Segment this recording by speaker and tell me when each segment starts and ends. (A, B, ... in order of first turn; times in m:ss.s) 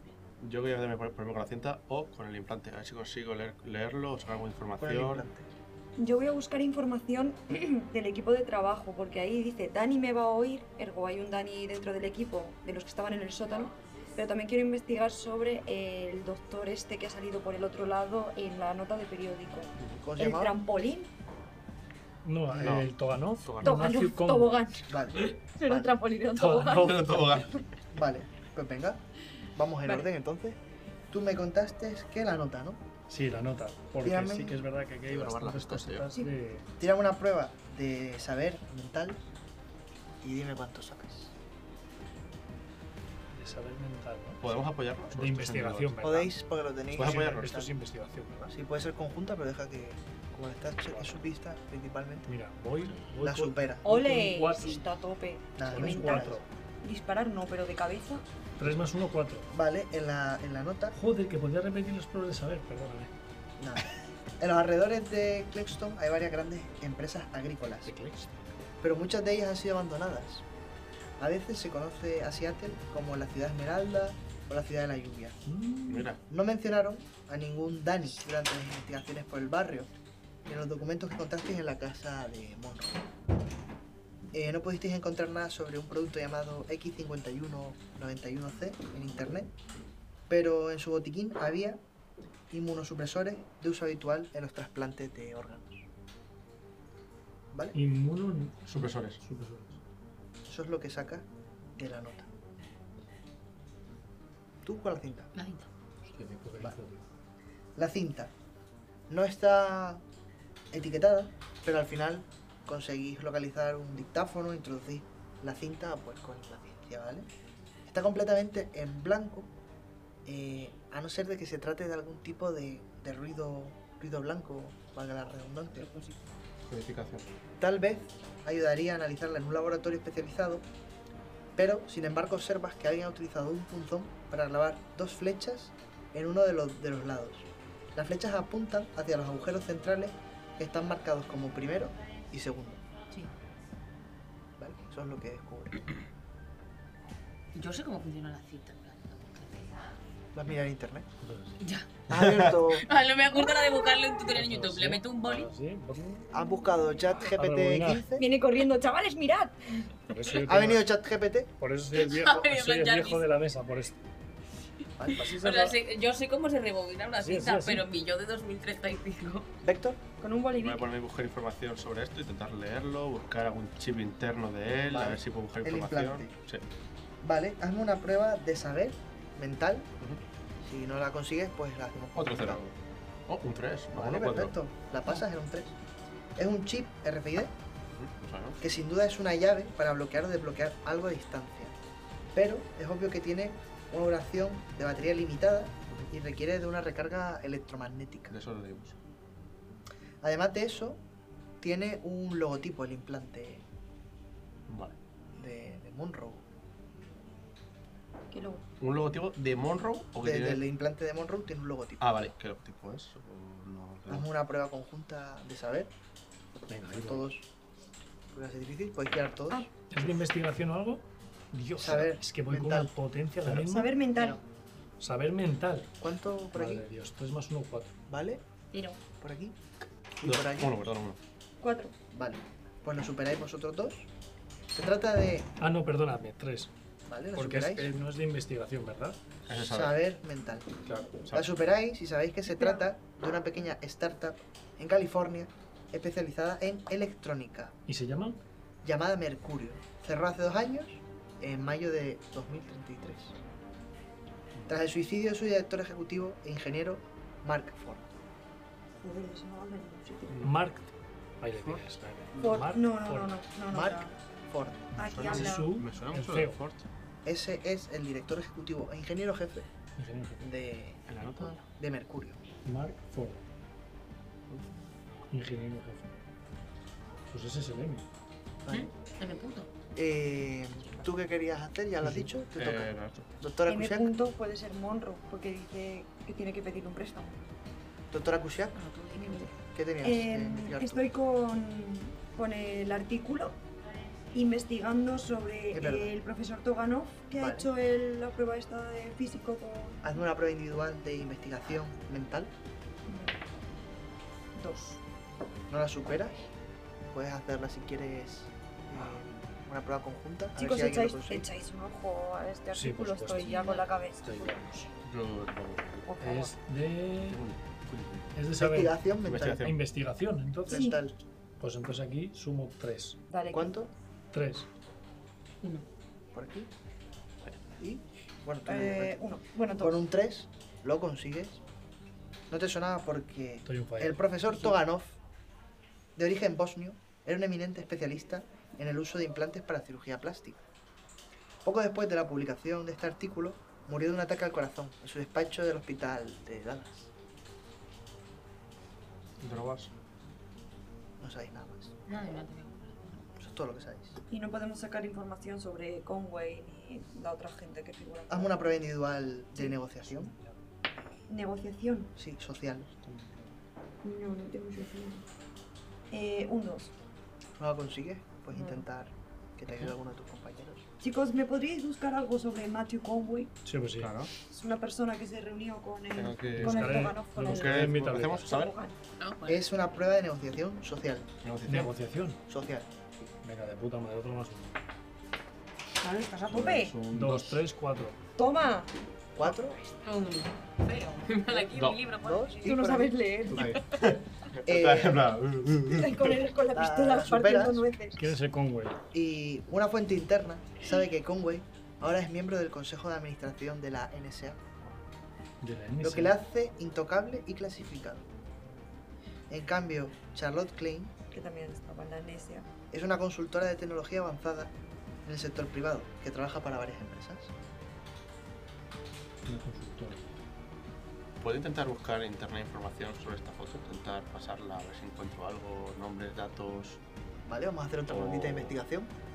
0:00.4-0:05.3 A
0:04.8-0:05.5 B
0:06.0-0:21.1 C
0:19.8-0:20.0 A
0:20.0-0:20.6 B
0:22.2-0:24.6 D
0:22.6-0:22.9 A
0:23.6-0:25.0 C
0:24.9-0:26.0 B
0:25.6-0:27.3 C
0:26.3-0:27.5 D
0:26.6-0:27.6 A
0:27.9-0:29.0 B
0:29.5-0:32.8 B
0:33.1-0:36.7 D
0:34.0-0:34.6 B
0:35.0-0:36.1 A
0:36.8-0:39.3 B
0:40.2-0:41.3 B
0:43.3-0:44.6 D
0:44.4-0:46.0 A
0:45.1-0:46.4 D
0:46.0-0:47.7 B
0:46.9-0:47.6 A
0:47.0-0:48.5 D
0:48.5-0:52.3 B
0:52.2-0:54.8 D
0:53.2-0:53.8 B
0:53.8-0:58.3 C
0:55.6-0:56.4 B
0:55.6-0:56.4 D
0:58.6-0:59.5 D
0:59.5-1:01.0 B
1:00.9-1:03.1 D
1:03.6-1:07.9 B
1:07.8-1:08.5 D
1:08.8-1:10.4 B
1:11.2-1:15.4 B
1:15.4-1:16.1 D
1:15.9-1:16.2 A
1:16.3-1:19.9 B
1:20.4-1:23.1 B
1:24.3-1:29.5 B
1:30.3-1:31.8 B
1:32.5-1:35.9 B
1:37.5-1:37.8 B
1:37.7-1:39.8 D
1:38.7-1:39.2 A
1:40.5-1:42.3 B
1:44.6-1:45.3 B
1:45.3-1:45.7 E
1:46.0-1:47.0 D
1:47.8-1:48.3 B
1:49.1-1:50.0 B
1:50.7-1:57.3 B
1:57.8-1:59.5 B
2:00.2-2:05.9 B
2:05.7-2:06.3 E
2:06.7-2:07.3 A
2:07.6-2:10.7 B
2:11.6-2:22.8 B
2:24.6-2:25.8 B
2:27.5-2:29.8 E
2:30.3-2:31.1 B
2:31.2-2:31.6 D
2:31.6-2:32.0 E
2:32.1-2:32.9 B
2:32.1-2:32.5 A
2:32.6-2:35.5 E
2:34.3-2:36.3 D
2:36.3-2:38.3 B
2:37.3-2:38.0 D
2:38.2-2:39.9 C
2:40.1-2:40.9 D
2:40.4-2:41.5 B
2:41.6-2:44.0 D
2:42.0-2:43.2 E
2:45.0-2:45.4 B
2:45.1-2:45.7 D
2:45.1-2:49.5 E
2:47.2-2:47.8 D
2:49.6-2:50.0 B
2:50.2-2:50.9 C
2:50.6-2:56.6 A
2:54.9-2:56.3 B
2:57.2-2:59.9 B
3:00.6-3:02.6 B
3:02.2-3:02.8 A
3:03.3-3:04.6 A
3:03.9-3:05.8 B
3:06.4-3:07.6 B
3:07.9-3:08.6 A
3:08.6-3:11.8 B
3:12.3-3:18.3 B
3:18.3-3:19.0 A
3:20.2-3:21.0 B
3:21.6-3:23.6 B
3:24.7-3:25.0 A
3:25.3-3:26.5 B
3:28.3-3:28.6 C
3:28.8-3:30.6 A
3:30.2-3:32.0 B
3:32.0-3:34.3 A
3:34.1-3:35.9 B
3:36.7-3:37.3 D
3:36.9-3:37.5 B
3:38.3-3:39.7 B
3:39.9-3:43.9 D
3:41.8-3:42.9 B
3:43.6-3:44.4 C
3:45.0-3:46.0 D
3:46.0-3:46.9 B
3:46.5-3:47.9 D
3:48.1-3:48.4 B
3:48.7-3:49.0 E
3:49.2-3:49.6 B
3:50.2-3:50.7 B
3:50.2-3:51.2 A
3:51.6-3:51.9 C
3:52.1-3:54.1 B
3:54.7-3:55.5 B
3:55.6-3:56.7 D
3:57.1-3:57.9 B
3:57.3-3:59.2 D
3:59.5-4:00.0 A
3:59.7-4:00.7 B
4:00.8-4:01.2 D
4:01.2-4:01.5 A
4:01.3-4:07.7 B
4:02.5-4:02.8 C
4:07.8-4:08.4 D
4:08.8-4:13.4 B
4:14.7-4:18.1 B
4:19.0-4:20.4 C
4:20.3-4:20.6 A
4:20.4-4:23.4 D
4:22.3-4:22.6 A
4:22.4-4:24.1 C
4:23.7-4:25.0 B
4:25.0-4:25.7 C
4:25.0-4:26.8 A
4:25.1-4:26.6 D
4:27.2-4:29.7 B
4:30.0-4:30.5 D
4:30.4-4:32.4 B
4:31.1-4:31.6 A
4:32.6-4:33.4 D
4:35.3-4:36.2 D
4:37.3-4:38.1 D
4:38.6-4:38.9 B
4:38.7-4:39.7 E
4:39.9-4:44.1 B
4:42.6-4:43.3 A
4:43.7-4:47.4 C
4:48.1-4:48.8 B
4:48.7-4:49.6 E
4:49.1-4:49.5 C
4:49.7-4:51.0 B
4:50.0-4:53.6 C
4:54.3-5:00.1 C
4:55.7-4:56.1 B
4:57.4-4:57.7 B
5:00.0-5:02.5 B
5:03.1-5:03.4 C
5:04.5-5:05.0 C
5:05.7-5:06.4 B
5:07.1-5:11.5 B
5:10.6-5:14.5 C
5:12.7-5:14.9 D
5:13.4-5:13.9 E
5:15.0-5:16.1 A
5:16.0-5:16.5 C
5:16.2-5:17.4 D
5:17.2-5:18.3 A
5:18.3-5:19.0 D
5:18.6-5:19.7 B
5:19.2-5:19.8 A
5:19.6-5:20.9 D
5:20.6-5:21.2 B
5:20.7-5:21.0 C
5:21.6-5:23.2 D
5:23.3-5:23.7 C
5:23.5-5:23.9 B
5:24.3-5:24.7 D
5:26.3-5:26.7 B
5:27.8-5:31.6 B
5:28.6-5:30.0 C
5:32.5-5:35.2 B
5:33.6-5:34.3 D
5:36.2-5:40.6 B
5:41.6-5:47.1 B
5:49.4-5:49.9 A
5:51.2-5:51.9 B
5:52.1-5:53.3 E
5:53.4-5:54.2 B
5:54.3-5:58.6 C
5:58.3-6:00.3 B
6:01.3-6:02.1 C
6:02.2-6:02.9 B
6:03.0-6:03.5 A
6:04.0-6:05.2 C
6:06.1-6:06.9 C
6:07.6-6:10.8 B
6:08.5-6:08.8 C
6:11.0-6:13.5 C
6:13.6-6:14.2 D
6:14.0-6:14.3 A
6:14.4-6:19.0 C
6:16.1-6:18.7 A
6:16.6-6:18.6 D
6:19.2-6:19.7 E
6:19.4-6:21.3 B
6:21.4-6:21.9 A
6:21.7-6:22.4 D
6:22.5-6:22.9 B
6:23.4-6:24.8 D
6:26.0-6:27.0 C
6:26.4-6:27.6 A
6:27.1-6:28.2 D
6:28.4-6:28.9 C
6:29.3-6:29.8 B
6:29.5-6:32.8 E
6:31.7-6:32.0 A
6:32.2-6:33.2 B
6:32.6-6:33.8 C
6:33.5-6:36.4 A
6:34.6-6:35.3 B
6:35.8-6:38.3 C
6:36.7-6:37.9 B
6:38.2-6:39.0 D
6:39.1-6:44.6 B
6:45.6-6:46.4 D
6:46.0-6:48.3 B
6:49.5-6:51.1 B
6:51.3-6:52.7 C
6:52.9-6:54.7 B
6:55.2-6:57.5 B
6:59.4-7:00.3 D
7:01.4-7:07.0 A
7:07.4-7:09.1 B
7:08.1-7:08.8 A